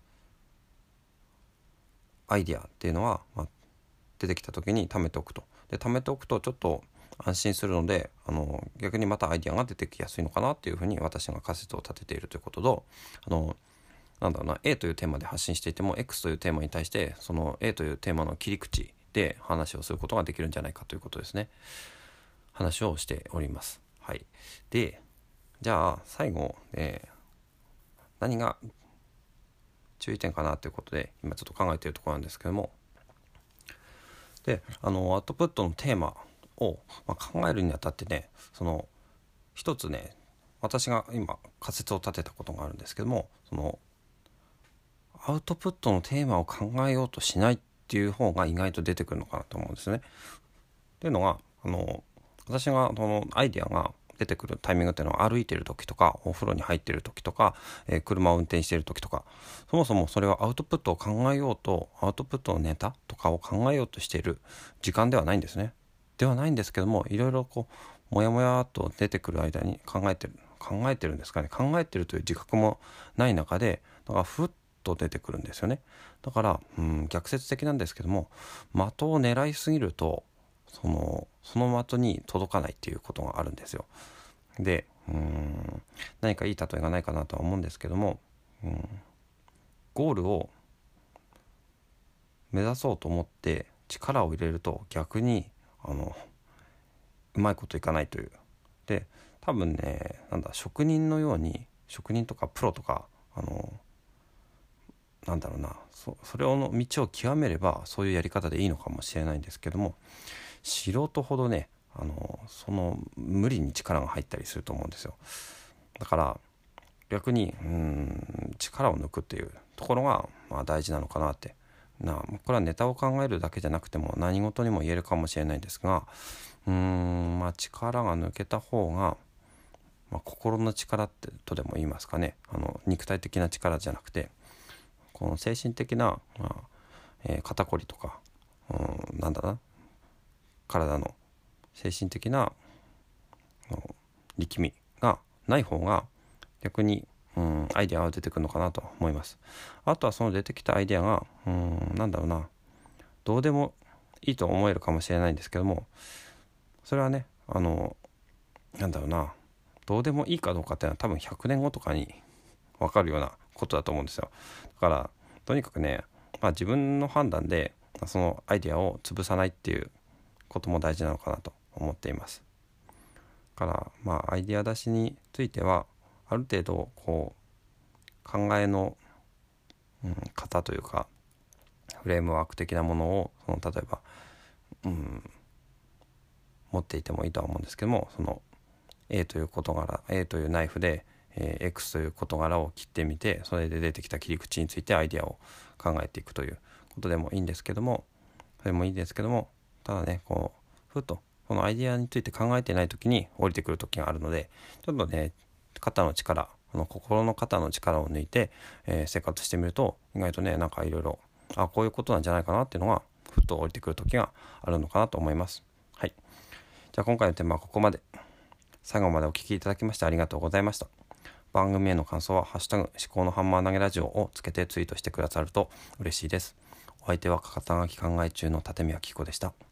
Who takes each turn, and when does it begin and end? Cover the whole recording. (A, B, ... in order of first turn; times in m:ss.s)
0:02.3-0:03.5 A
0:04.2-0:13.6 A
0:14.2-0:21.5 A
0:22.5-0:25.0 A
0:25.6-0:27.1 A
0:28.2-0:28.6 A
0:30.0-0:32.8 A
0:34.4-0:38.9 A
0:39.6-0:43.8 A
0:45.2-0:50.1 A
0:51.0-1:23.9 A
1:24.6-1:29.0 A
1:29.9-1:30.5 A
1:32.5-1:36.3 A
1:37.3-1:38.4 A
1:38.9-1:43.8 A
1:45.2-1:50.0 A
1:50.6-1:55.2 A
1:56.0-1:56.4 A
1:57.1-2:09.2 A
2:10.1-2:14.3 A
2:15.1-2:16.7 A
2:17.2-2:19.6 A
2:20.7-2:21.2 A
2:21.8-2:22.6 A
2:23.7-2:26.1 A
2:26.6-2:32.5 A
2:33.2-2:35.9 A
2:36.8-2:38.0 A
2:38.8-2:39.4 A
2:39.9-2:42.2 A
2:42.8-2:49.9 A
2:50.5-2:52.4 A
2:53.6-2:57.4 A
2:58.2-2:59.0 A
3:00.0-3:01.1 A
3:02.0-3:04.0 A
3:04.8-3:05.3 A
3:06.7-3:08.4 A
3:09.1-3:18.1 A
3:18.6-3:36.2 A
3:36.9-3:38.0 A
3:38.8-3:40.9 A
3:41.5-3:49.5 A